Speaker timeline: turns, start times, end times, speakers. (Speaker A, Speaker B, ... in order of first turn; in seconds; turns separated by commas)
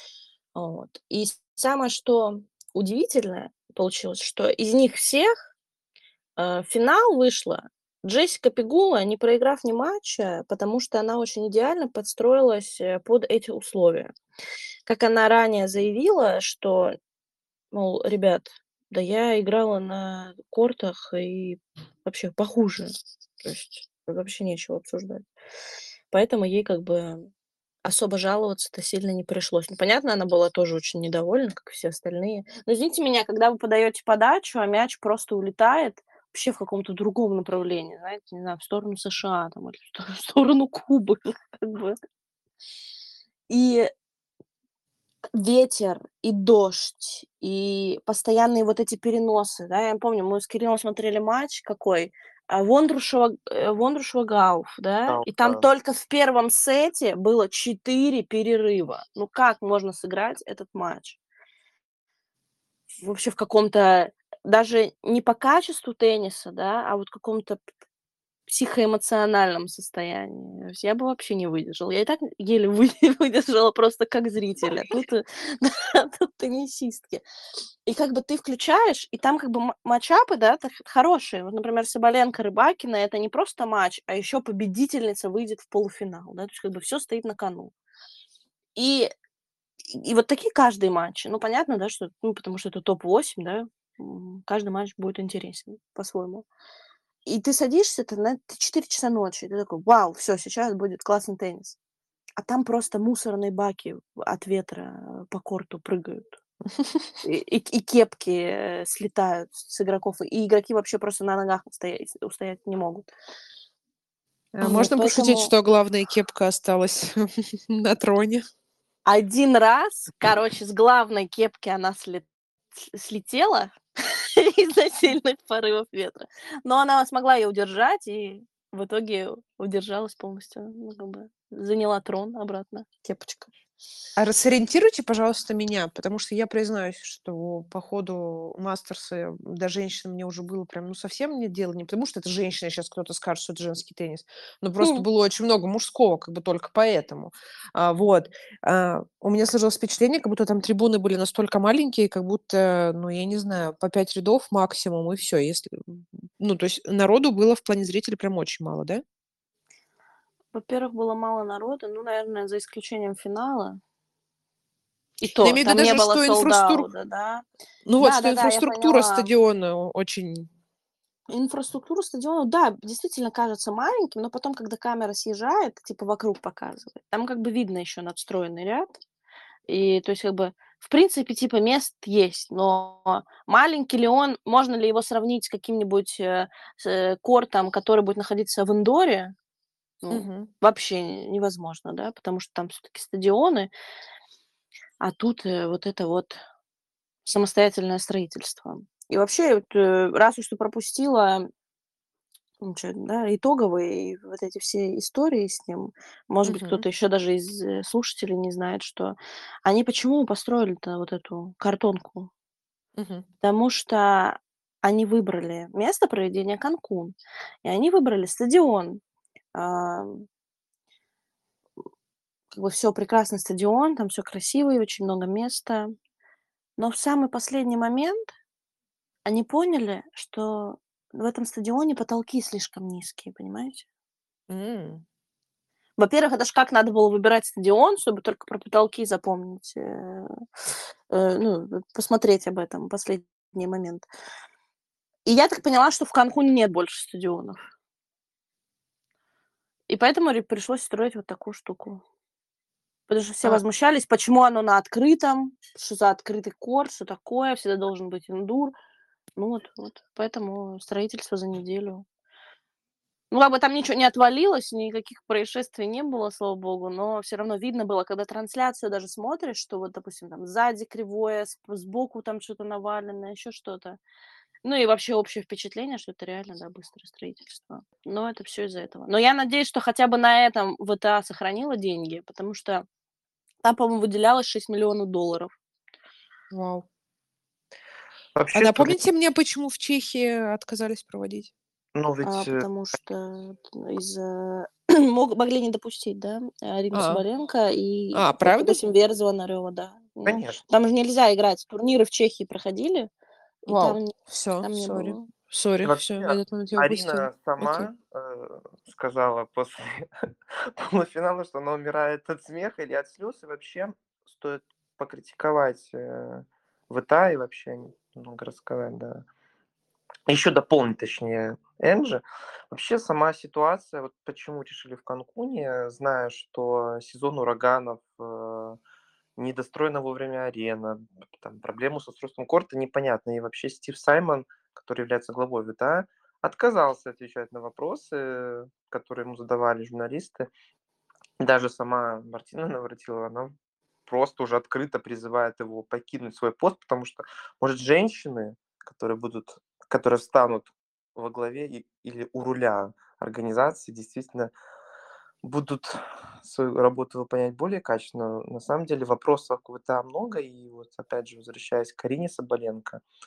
Speaker A: 0.5-5.5, Speaker A: 6.4-14.1, Speaker A: 14.9-16.9, Speaker A: 17.7-22.9, Speaker A: 23.4-25.2, Speaker A: 26.1-27.3, Speaker A: 27.8-42.0, Speaker A: 43.5-43.9, Speaker A: 45.3-61.2, Speaker B: 55.1-55.6, Speaker A: 63.0-67.6, Speaker A: 68.5-77.2, Speaker A: 77.8-87.7, Speaker A: 88.8-89.1, Speaker A: 89.9-96.5, Speaker A: 97.2-101.8, Speaker A: 102.4-106.4, Speaker C: 106.7-107.1, Speaker A: 107.2-113.1, Speaker C: 114.5-118.4, Speaker A: 114.6-115.5, Speaker A: 119.0-133.5, Speaker C: 134.2-159.0, Speaker A: 160.5-163.8, Speaker A: 165.2-167.4, Speaker C: 165.4-166.9, Speaker C: 167.8-170.5, Speaker A: 168.0-169.3, Speaker A: 171.3-178.9, Speaker A: 179.7-189.3, Speaker A: 190.0-193.7, Speaker C: 190.1-190.5, Speaker A: 195.0-196.4, Speaker A: 197.2-201.5, Speaker A: 202.6-212.3, Speaker C: 206.4-206.8, Speaker C: 213.0-213.2, Speaker A: 213.4-219.0, Speaker A: 219.5-220.2, Speaker A: 222.5-225.9, Speaker A: 226.8-228.3, Speaker A: 229.2-233.8, Speaker C: 234.5-235.0, Speaker A: 236.0-240.4, Speaker A: 241.1-244.1, Speaker A: 245.2-247.6, Speaker A: 249.9-252.0, Speaker A: 253.1-258.7, Speaker A: 259.4-262.1, Speaker A: 263.3-274.0, Speaker A: 274.6-282.8, Speaker A: 283.6-285.5, Speaker C: 286.5-286.8, Speaker B: 288.4-289.0, Speaker C: 288.5-291.5, Speaker B: 291.9-292.6, Speaker A: 292.2-303.1, Speaker C: 296.9-297.2, Speaker C: 298.1-298.8, Speaker B: 300.2-300.6, Speaker A: 303.6-305.3, Speaker C: 303.7-307.9, Speaker B: 305.8-310.1, Speaker B: 310.6-319.2, Speaker B: 320.3-328.8, Speaker B: 329.4-340.5, Speaker B: 341.4-343.5, Speaker B: 344.1-354.5, Speaker B: 355.4-363.0